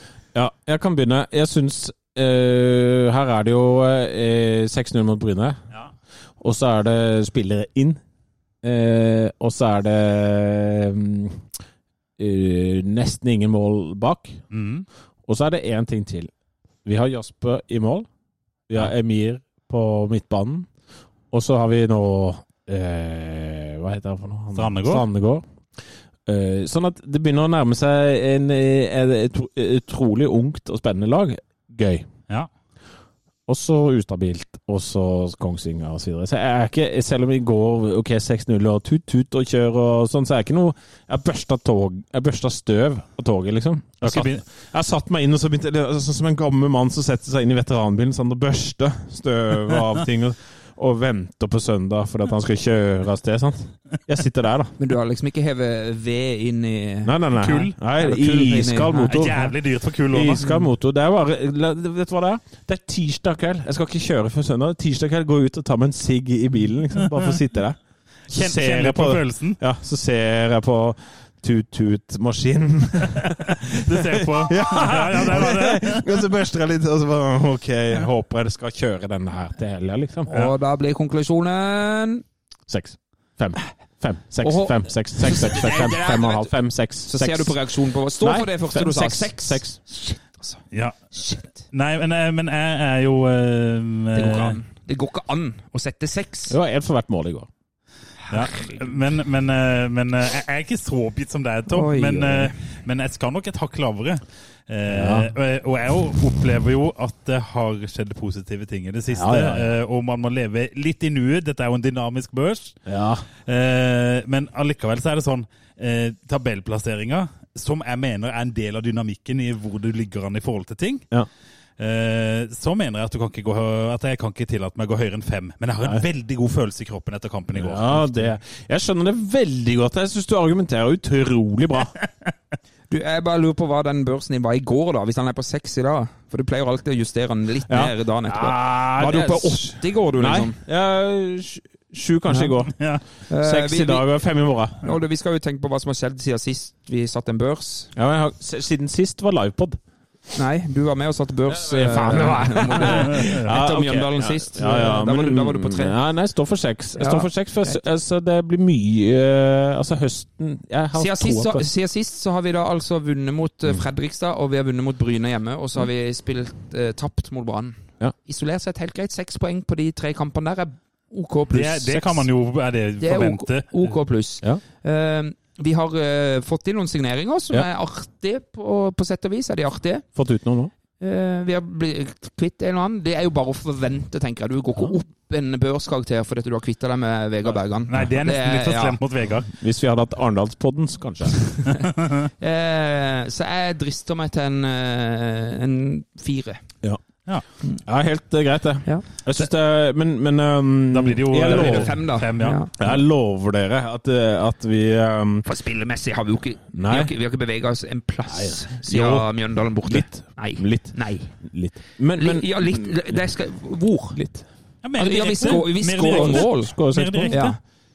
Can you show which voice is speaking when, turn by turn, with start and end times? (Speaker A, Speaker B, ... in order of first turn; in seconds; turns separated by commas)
Speaker A: 0.3-5.6, Speaker A: 6.4-8.0, Speaker A: 8.6-11.4, Speaker A: 12.2-14.4, Speaker B: 14.5-14.8, Speaker A: 15.3-16.3, Speaker A: 16.8-18.1, Speaker A: 18.7-20.7, Speaker A: 21.3-25.4, Speaker B: 24.5-25.0, Speaker A: 26.2-32.1, Speaker A: 33.5-54.7, Speaker B: 44.0-44.4, Speaker C: 54.8-59.5, Speaker A: 57.0-59.5, Speaker B: 57.4-57.7, Speaker B: 59.1-60.4, Speaker A: 60.1-67.8, Speaker C: 60.4-60.7, Speaker B: 68.3-69.6, Speaker A: 68.3-80.3, Speaker B: 73.2-76.1, Speaker C: 80.3-82.2, Speaker A: 82.7-87.6, Speaker C: 84.4-86.5, Speaker C: 87.0-90.6, Speaker A: 88.1-89.8, Speaker B: 90.7-94.6, Speaker C: 91.1-91.5, Speaker C: 94.1-96.5, Speaker A: 96.5-97.5, Speaker C: 98.3-99.0, Speaker B: 98.3-112.8, Speaker C: 101.7-102.5, Speaker A: 104.9-105.3, Speaker A: 109.1-109.7, Speaker A: 112.8-113.2, Speaker B: 113.5-121.0, Speaker B: 121.8-128.3, Speaker A: 127.5-131.9, Speaker C: 132.9-140.6, Speaker A: 137.7-142.8, Speaker C: 143.3-144.1, Speaker A: 143.4-144.8, Speaker C: 144.8-147.9, Speaker A: 147.9-149.8, Speaker C: 150.3-155.9, Speaker A: 151.5-161.6, Speaker B: 153.1-153.5, Speaker C: 157.0-157.8, Speaker C: 160.9-172.2, Speaker B: 171.5-173.9, Speaker C: 173.0-180.1, Speaker A: 180.1-180.7, Speaker C: 181.0-189.0, Speaker B: 187.9-189.5, Speaker A: 189.5-191.5, Speaker B: 191.7-192.3, Speaker C: 192.4-196.6, Speaker A: 197.8-201.9, Speaker B: 200.9-202.6, Speaker C: 201.4-203.0, Speaker A: 202.8-205.4, Speaker C: 205.4-211.3, Speaker A: 206.7-207.1, Speaker A: 208.3-209.3, Speaker A: 209.8-213.2, Speaker C: 212.2-214.2, Speaker A: 214.1-214.4, Speaker B: 214.8-217.6, Speaker C: 215.0-216.8, Speaker A: 215.4-217.4, Speaker C: 217.3-217.6